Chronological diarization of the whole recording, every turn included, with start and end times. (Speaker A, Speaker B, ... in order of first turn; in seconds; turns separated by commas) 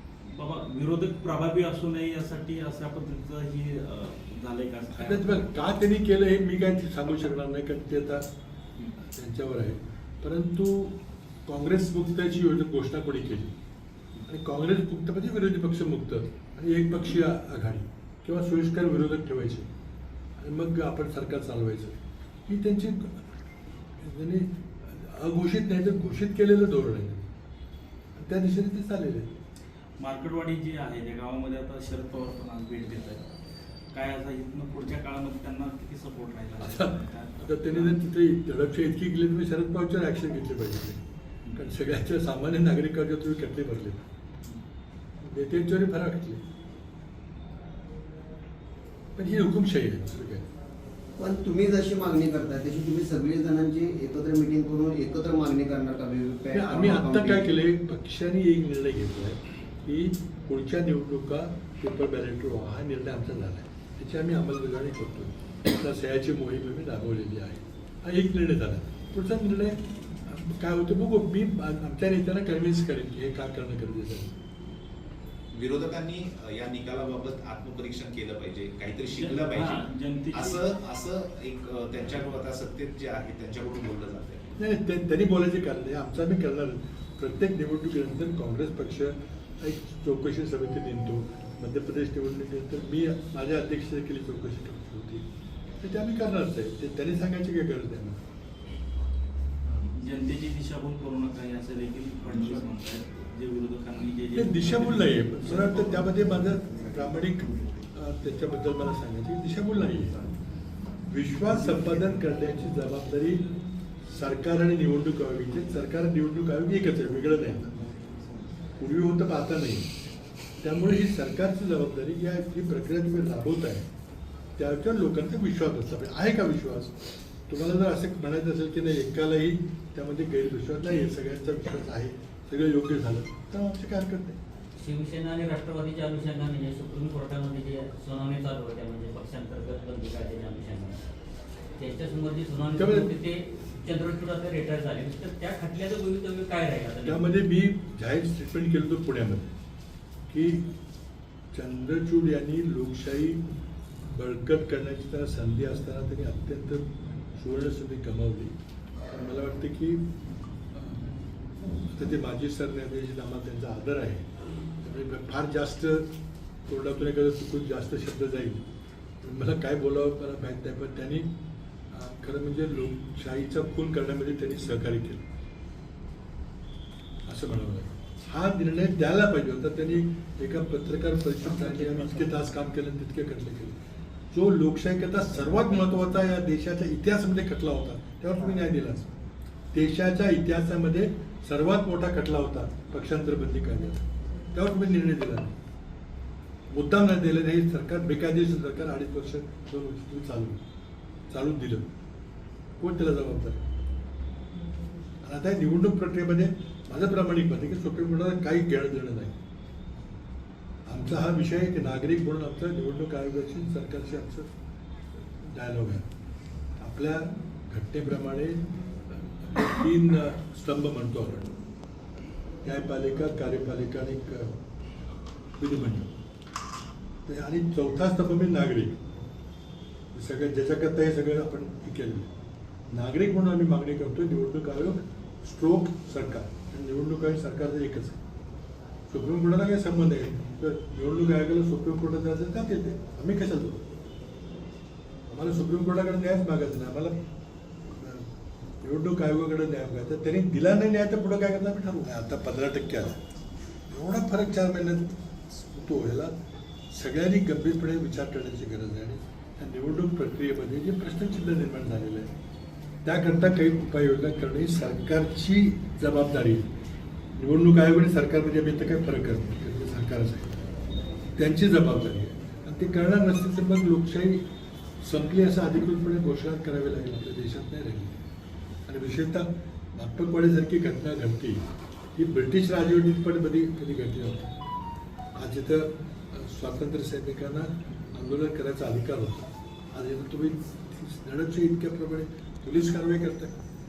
Speaker A: 0.3-5.4, Speaker B: 4.9-8.3, Speaker B: 9.0-13.6, Speaker B: 14.3-19.7, Speaker B: 20.4-23.2, Speaker B: 24.0-27.3, Speaker B: 28.1-29.4, Speaker A: 30.0-33.2, Speaker A: 33.9-38.0, Speaker B: 36.6-41.0, Speaker B: 41.5-44.1, Speaker B: 45.2-46.4, Speaker B: 49.2-50.5, Speaker C: 51.2-57.5, Speaker B: 56.5-74.3, Speaker D: 75.5-84.5, Speaker A: 79.1-80.7, Speaker B: 84.6-95.2, Speaker B: 95.8-98.2, Speaker A: 99.8-106.1, Speaker B: 104.3-110.2, Speaker B: 111.1-113.5, Speaker B: 114.1-117.8, Speaker B: 118.8-119.9, Speaker B: 120.6-123.9, Speaker B: 124.6-126.9, Speaker B: 127.5-134.4, Speaker E: 134.8-141.0, Speaker E: 141.8-147.2, Speaker B: 142.8-143.1, Speaker B: 147.1-149.5, Speaker B: 150.3-150.7, Speaker B: 151.5-153.4, Speaker B: 154.0-158.5, Speaker B: 159.1-160.1, Speaker B: 160.7-161.1, Speaker B: 161.9-164.3, Speaker B: 164.8-166.1, Speaker B: 166.7-168.7, Speaker B: 169.2-171.3, Speaker B: 171.9-175.2, Speaker B: 177.3-183.8, Speaker B: 184.3-189.0, Speaker B: 189.7-195.6, Speaker B: 196.7-200.6, Speaker B: 201.3-201.9, Speaker B: 202.8-203.6, Speaker B: 205.2-209.4, Speaker B: 210.9-214.5, Speaker B: 215.4-216.1, Speaker B: 216.8-221.6, Speaker B: 222.6-224.5, Speaker B: 225.6-226.1, Speaker B: 227.2-229.0, Speaker B: 230.1-232.3, Speaker B: 232.9-238.2, Speaker B: 239.1-243.8, Speaker B: 245.3-247.2, Speaker B: 247.9-248.3, Speaker B: 248.8-253.2, Speaker B: 253.9-256.3, Speaker B: 256.9-262.3, Speaker B: 263.0-266.7, Speaker B: 267.4-270.5, Speaker B: 271.4-274.4, Speaker B: 275.0-278.2, Speaker B: 278.9-284.5, Speaker B: 285.4-293.5